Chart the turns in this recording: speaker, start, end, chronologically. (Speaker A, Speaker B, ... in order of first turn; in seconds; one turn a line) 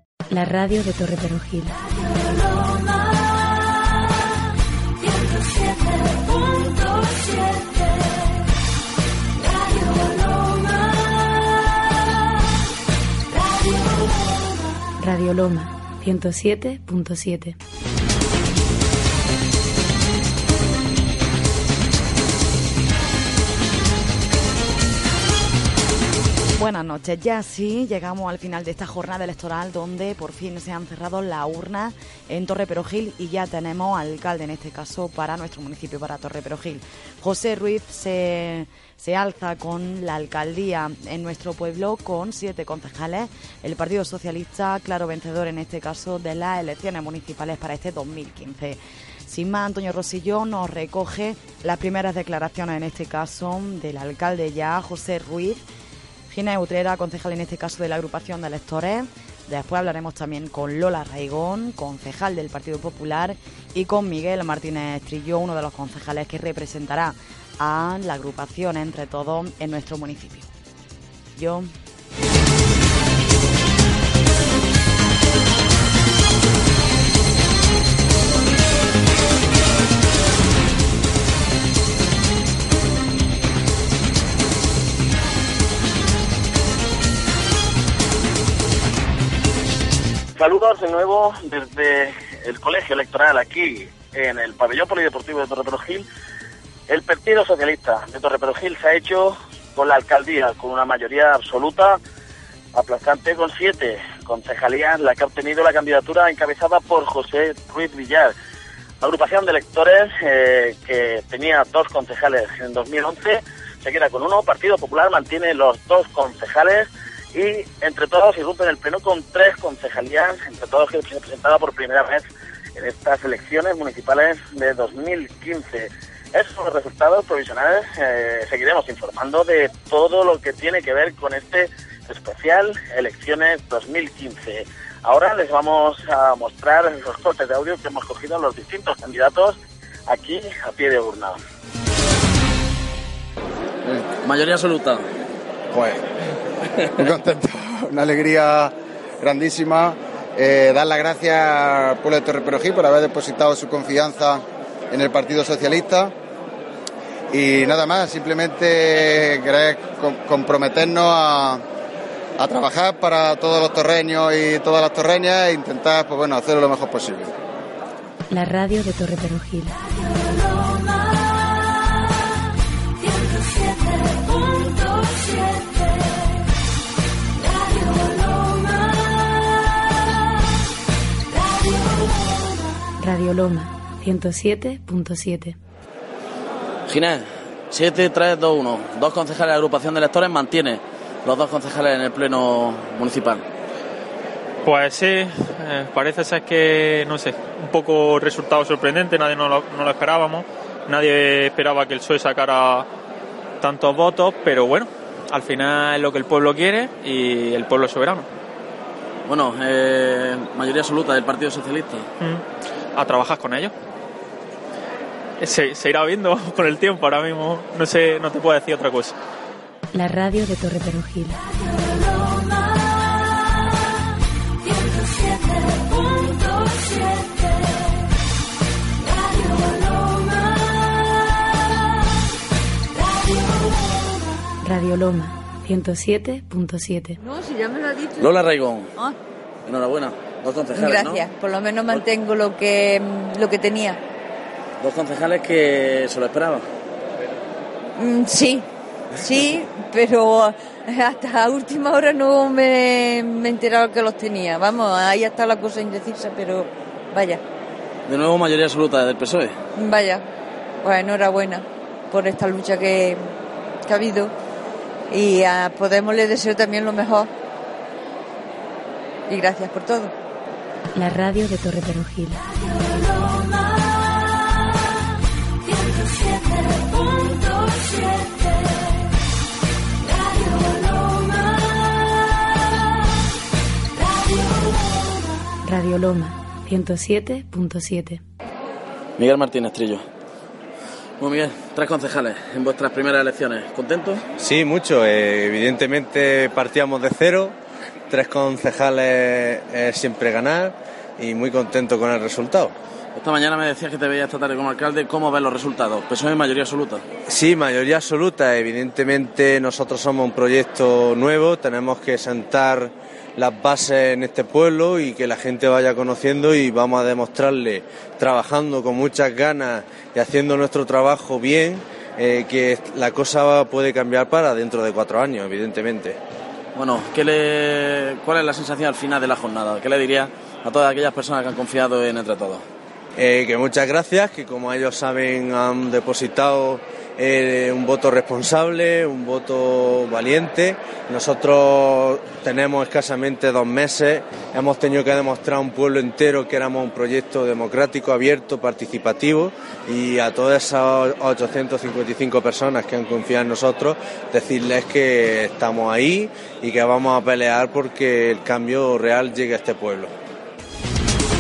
Speaker A: 0.3-1.8
Speaker A: 15.0-17.6
Speaker B: 26.6-55.6
Speaker B: 56.3-70.5
Speaker B: 71.4-71.7
Speaker C: 90.4-96.0
Speaker C: 96.9-102.0
Speaker C: 102.7-108.3
Speaker C: 109.0-141.4
Speaker D: 144.2-145.0
Speaker E: 145.7-146.0
Speaker E: 147.0-156.1
Speaker E: 157.3-161.6
Speaker E: 162.4-167.3
Speaker A: 168.3-169.8
Speaker A: 183.0-185.6
Speaker D: 186.9-193.4
Speaker F: 194.6-202.9
Speaker F: 203.6-208.2
Speaker D: 209.3-212.1
Speaker F: 212.9-213.7
Speaker F: 215.4-219.1
Speaker A: 219.9-221.4
Speaker A: 234.6-237.2
Speaker G: 237.3-238.2
Speaker D: 238.2-239.0
Speaker D: 239.7-241.3
Speaker G: 240.8-244.0
Speaker D: 244.8-246.7
Speaker G: 248.0-248.6
Speaker G: 249.2-257.4
Speaker D: 258.1-259.5
Speaker G: 259.8-260.2
Speaker G: 260.8-263.2
Speaker G: 263.9-264.3
Speaker G: 265.1-267.3
Speaker G: 269.3-270.1
Speaker A: 270.9-272.4
Speaker A: 285.6-288.2
Speaker D: 289.2-290.0
Speaker D: 291.2-294.2
Speaker H: 294.4-297.5
Speaker H: 298.1-302.7
Speaker D: 303.1-307.0
Speaker H: 307.3-326.2
Speaker D: 326.7-332.6
Speaker H: 333.2-360.1